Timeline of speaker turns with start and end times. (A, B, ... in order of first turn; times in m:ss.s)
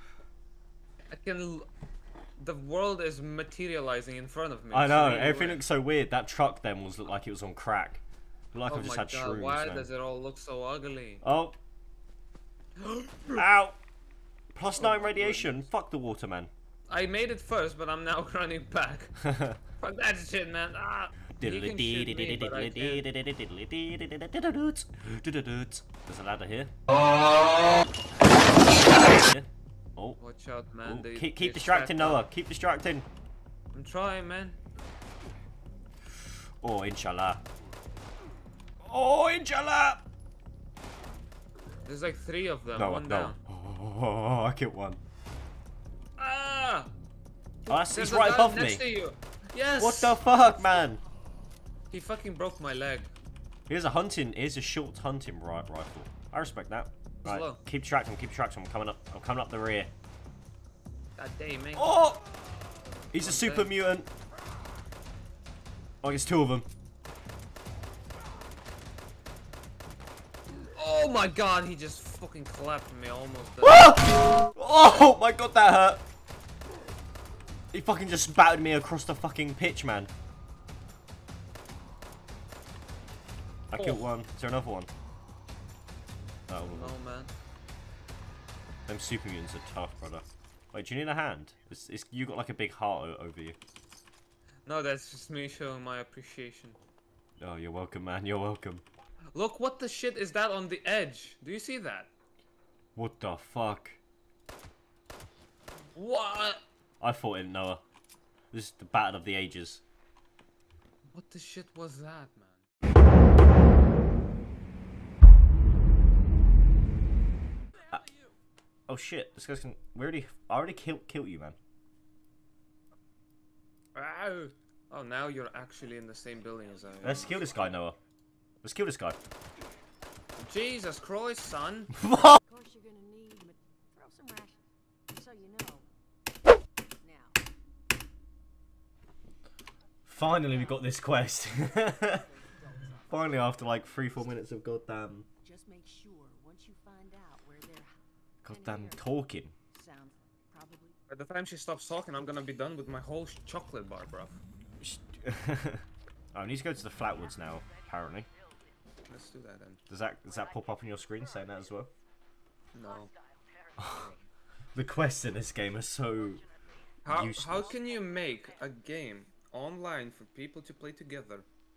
0:01.1-0:01.7 A
0:02.4-0:05.6 A
0:04.7-0:09.9 B
0:08.7-0:11.2 A
0:11.2-0:11.6 B
0:12.8-0:13.4 A
0:13.3-0:13.8 B
0:14.5-0:16.5 B
0:14.7-0:15.7 A
0:16.9-0:19.2 A
0:19.2-0:19.6 B
0:19.8-0:23.0 A
0:21.4-0:26.7 B
0:28.7-0:30.2 B
0:30.2-0:32.2 A
0:30.8-0:33.0 B
0:33.7-0:34.6 A
0:36.6-0:37.4 B
0:38.8-0:40.0 B
0:41.8-0:43.4 A
0:42.8-0:45.0 B
0:46.2-0:46.9 A
0:47.7-0:48.8 B
0:47.7-0:50.2 A
0:49.8-0:51.0 B
0:51.9-0:53.1 A
0:53.7-0:59.9 B
0:57.2-0:57.6 A
1:01.2-1:02.3 A
1:01.7-1:02.2 B
1:03.1-1:03.7 A
1:03.1-1:04.1 B
1:06.0-1:06.7 B
1:10.5-1:14.0 A
1:13.6-1:16.0 B
1:17.7-1:20.1 B
1:23.7-1:24.9 B
1:26.5-1:27.0 B
1:26.6-1:27.3 A
1:28.9-1:33.6 B
1:34.6-1:36.8 A
1:37.4-1:38.8 B
1:39.3-1:42.1 A
1:43.0-1:44.0 B
1:45.9-1:46.6 A
1:47.0-1:47.8 B
1:48.5-1:49.8 B
1:51.1-1:52.6 A
1:58.9-2:01.6 B
2:03.9-2:07.6 A
2:07.0-2:08.0 B
2:08.6-2:09.2 B
2:10.4-2:11.9 A
2:12.0-2:12.4 B
2:12.4-2:15.8 C
2:17.0-2:17.4 C
2:20.0-2:22.2 B
2:21.8-2:23.4 C
2:23.1-2:25.3 B
2:25.4-2:29.0 C
2:28.4-2:29.5 B
2:29.7-2:31.0 C
2:31.1-2:34.4 A
2:34.8-2:38.3 B
2:39.1-2:39.8 A
2:39.9-2:41.9 B
2:42.7-2:43.1 A
2:43.8-2:44.1 B
2:44.7-2:46.4 B
2:47.0-2:51.5 A
2:47.1-2:47.7 B